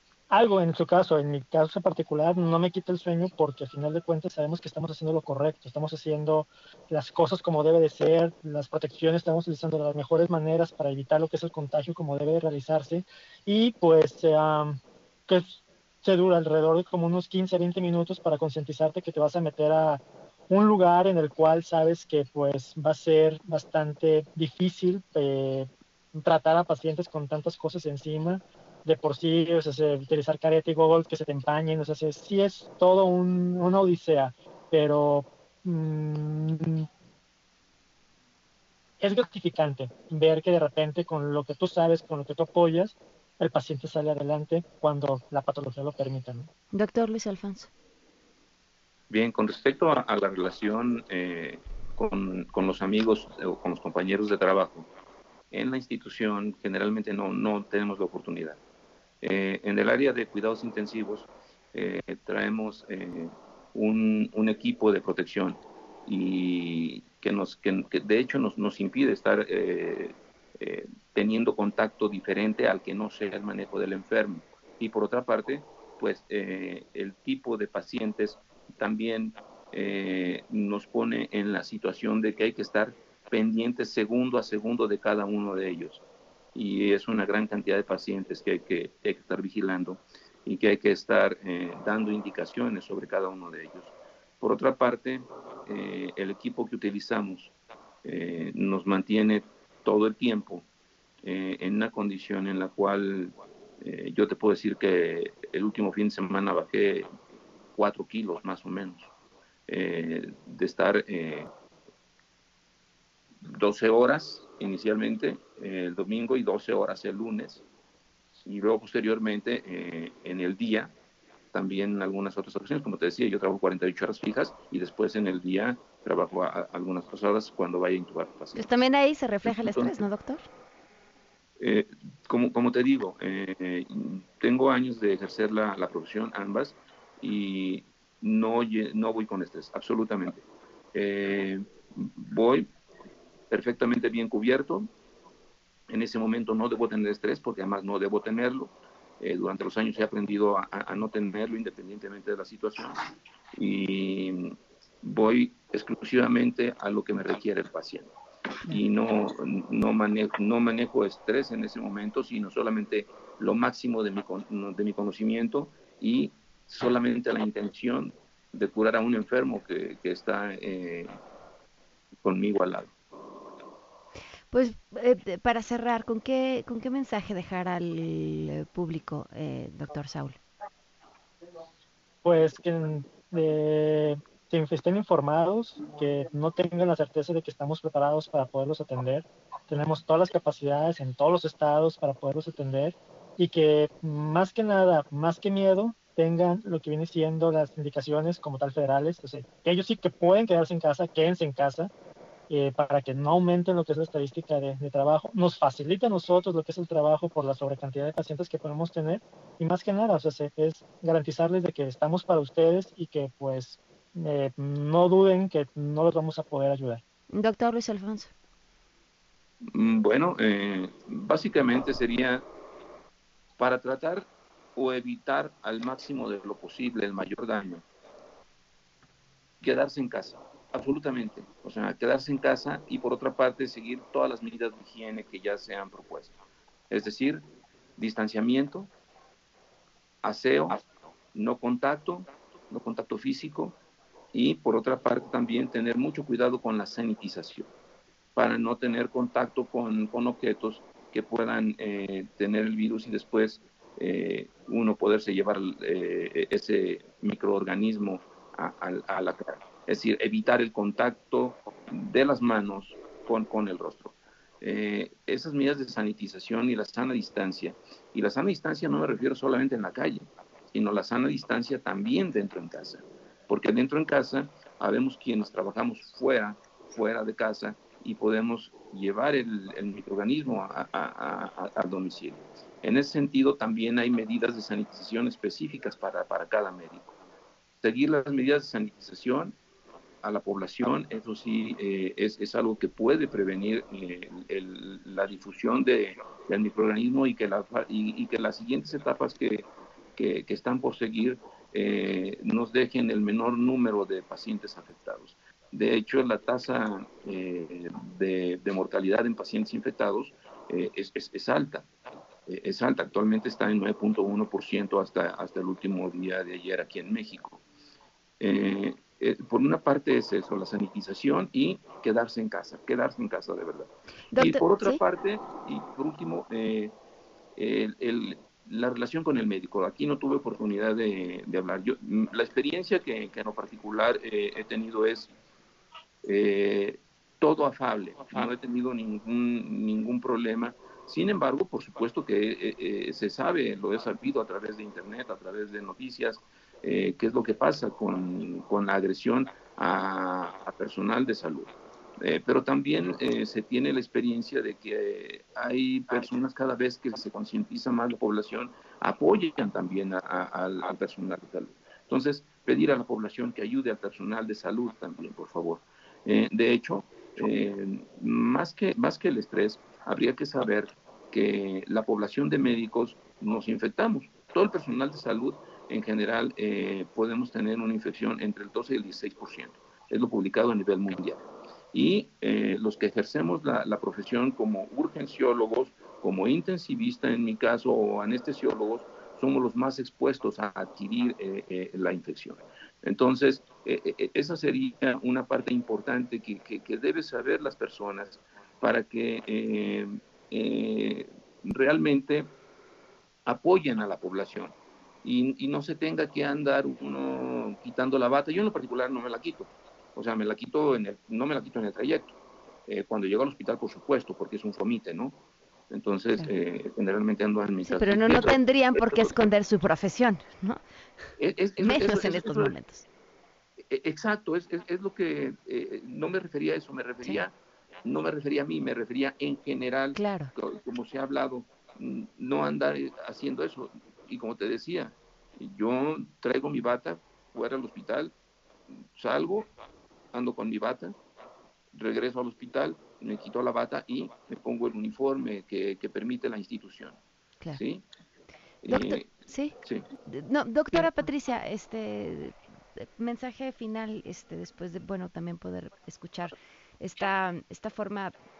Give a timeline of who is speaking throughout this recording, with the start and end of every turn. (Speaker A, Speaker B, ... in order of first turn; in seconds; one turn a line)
Speaker A: 0.3-36.9
Speaker A: 39.0-46.5
Speaker B: 46.7-47.7
Speaker C: 49.1-54.9
Speaker C: 55.5-58.6
Speaker C: 59.2-86.0
Speaker C: 86.5-97.5
Speaker C: 98.0-100.7
Speaker C: 101.2-107.1
Speaker C: 107.7-109.1
Speaker C: 109.7-111.5
Speaker C: 113.4-117.6
Speaker C: 118.4-120.9
Speaker C: 121.5-128.7
Speaker B: 128.5-130.4
Speaker C: 129.4-129.9
Speaker C: 131.6-142.7
Speaker C: 143.5-144.9
Speaker C: 145.9-153.0
Speaker C: 153.6-158.1
Speaker C: 158.7-171.2
Speaker C: 172.2-172.9
Speaker B: 174.5-180.4
Speaker A: 182.2-201.9
Speaker A: 202.5-217.0
Speaker B: 217.3-218.3
Speaker C: 219.7-222.4
Speaker C: 223.6-227.8
Speaker C: 229.6-236.3
Speaker C: 236.9-237.4
Speaker C: 238.0-238.9
Speaker C: 240.2-240.8
Speaker C: 241.3-243.8
Speaker C: 244.3-247.7
Speaker C: 248.3-287.1
Speaker C: 287.8-289.6
Speaker C: 290.2-311.9
Speaker C: 312.5-317.6
Speaker C: 318.4-326.9
Speaker B: 324.3-325.0
Speaker C: 327.6-335.3
Speaker C: 336.2-402.5
Speaker C: 403.4-415.4
Speaker C: 415.9-419.3
Speaker B: 417.8-420.8
Speaker C: 421.4-422.7
Speaker B: 421.8-423.1
Speaker C: 423.9-427.5
Speaker C: 428.0-438.3
Speaker B: 430.1-430.5
Speaker C: 439.1-439.7
Speaker C: 440.3-441.2
Speaker C: 441.9-447.2
Speaker C: 447.7-448.0
Speaker C: 448.8-450.1
Speaker B: 448.8-458.3